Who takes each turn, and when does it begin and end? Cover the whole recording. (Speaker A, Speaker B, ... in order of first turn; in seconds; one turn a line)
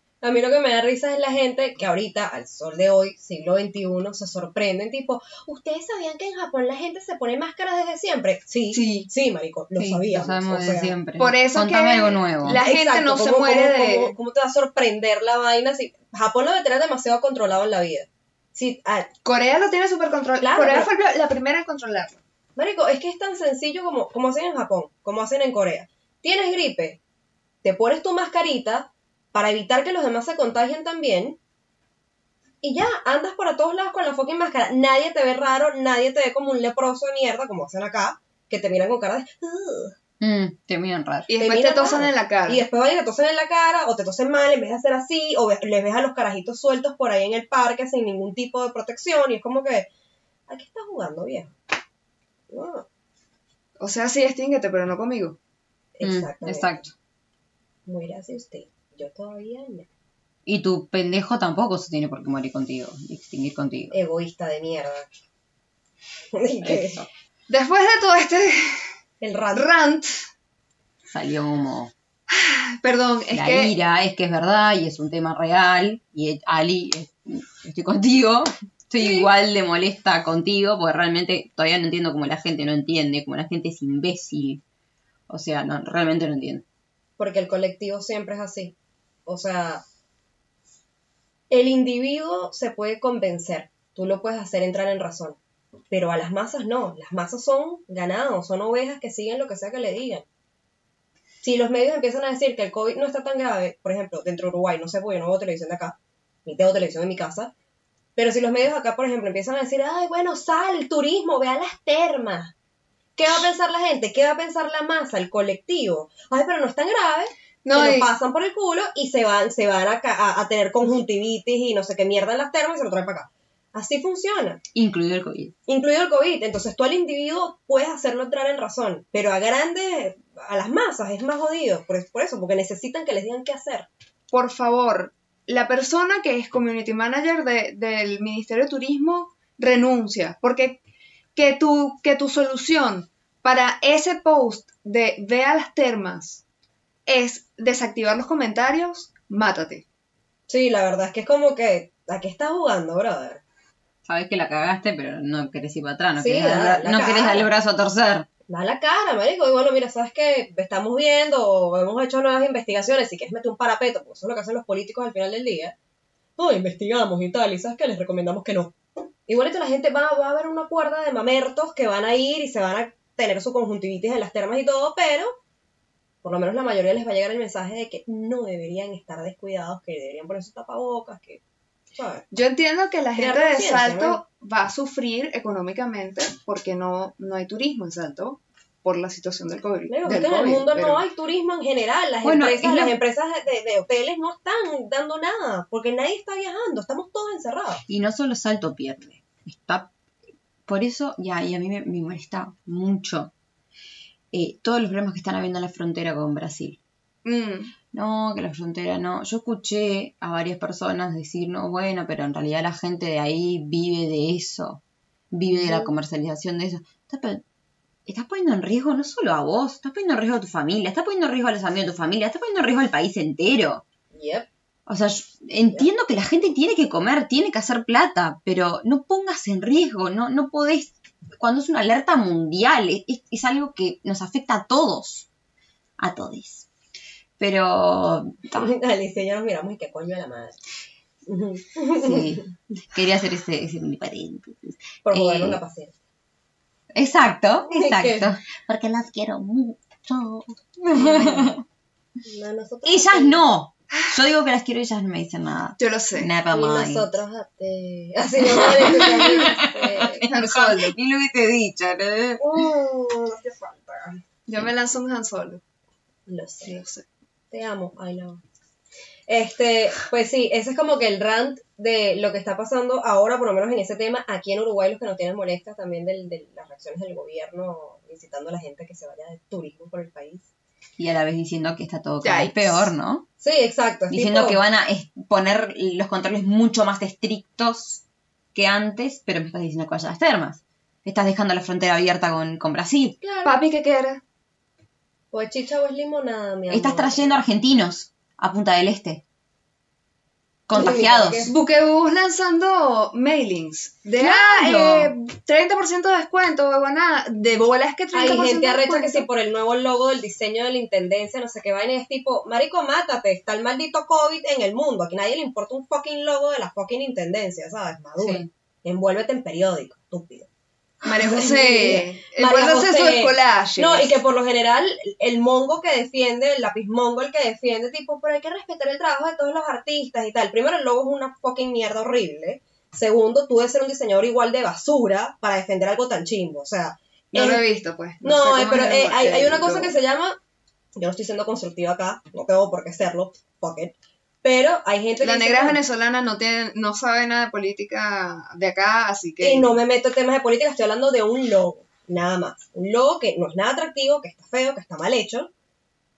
Speaker A: 0.2-10.9
Speaker B: 8.7-9.1
Speaker C: 9.8-12.6
Speaker B: 11.2-14.1
Speaker A: 12.6-19.1
Speaker B: 19.2-22.2
Speaker A: 20.4-20.9
Speaker A: 22.6-27.0
Speaker A: 27.6-31.4
Speaker A: 32.6-40.0
Speaker C: 40.2-41.3
Speaker B: 41.3-42.6
Speaker A: 41.4-49.9
Speaker A: 50.5-51.5
Speaker A: 52.5-52.9
Speaker B: 53.8-55.4
Speaker A: 56.0-56.9
Speaker C: 56.0-56.9
Speaker A: 57.9-59.9
Speaker C: 60.5-63.9
Speaker A: 63.9-65.1
Speaker A: 66.3-67.0
Speaker C: 66.6-67.1
Speaker B: 67.5-68.9
Speaker A: 69.2-69.7
Speaker B: 69.5-70.2
Speaker C: 71.1-71.9
Speaker B: 72.3-73.8
Speaker C: 73.3-84.6
Speaker C: 85.3-86.6
Speaker A: 87.2-88.8
Speaker A: 89.3-89.8
Speaker A: 91.5-95.4
Speaker A: 95.9-100.2
Speaker A: 101.4-107.5
Speaker A: 108.2-112.5
Speaker A: 113.2-124.6
Speaker B: 117.6-118.1
Speaker C: 124.7-125.5
Speaker A: 125.7-133.9
Speaker B: 134.3-140.8
Speaker B: 141.3-146.4
Speaker B: 147.1-149.8
Speaker A: 150.5-153.4
Speaker C: 154.1-158.3
Speaker A: 156.2-157.5
Speaker A: 158.5-165.7
Speaker A: 166.4-168.7
Speaker A: 169.3-175.4
Speaker A: 176.2-181.4
Speaker A: 181.9-182.2
Speaker B: 182.3-191.0
Speaker A: 183.2-184.2
Speaker A: 189.9-197.8
Speaker C: 192.2-192.9
Speaker C: 197.9-199.9
Speaker C: 200.7-203.3
Speaker C: 204.3-206.8
Speaker B: 207.2-207.7
Speaker C: 207.9-217.4
Speaker A: 215.5-215.9
Speaker C: 218.1-223.8
Speaker A: 224.1-224.5
Speaker C: 224.9-235.3
Speaker C: 236.0-236.7
Speaker C: 237.4-238.7
Speaker A: 238.6-240.6
Speaker A: 241.3-242.5
Speaker C: 242.0-245.6
Speaker A: 245.1-245.9
Speaker C: 246.9-251.6
Speaker A: 247.7-248.3
Speaker A: 251.0-251.6
Speaker A: 252.3-253.4
Speaker C: 252.8-257.1
Speaker B: 255.8-256.3
Speaker A: 256.5-260.2
Speaker C: 258.4-262.5
Speaker B: 260.2-260.9
Speaker A: 262.4-264.2
Speaker B: 264.5-265.6
Speaker A: 266.3-266.8
Speaker B: 266.6-267.1
Speaker A: 267.5-268.4
Speaker A: 269.3-280.5
Speaker C: 281.0-283.3
Speaker B: 282.2-282.9
Speaker A: 283.4-284.6
Speaker C: 284.1-293.2
Speaker A: 293.2-293.6
Speaker B: 293.4-294.2
Speaker A: 295.3-297.4
Speaker C: 296.7-299.2
Speaker C: 300.7-301.5
Speaker A: 300.7-301.5
Speaker B: 301.5-309.3
Speaker C: 304.2-305.1
Speaker A: 308.1-320.5
Speaker C: 318.2-318.5
Speaker B: 321.0-324.2
Speaker A: 321.0-337.6
Speaker B: 337.3-339.9
Speaker A: 338.2-340.4
Speaker A: 341.0-345.8
Speaker B: 345.2-349.7
Speaker A: 349.4-355.5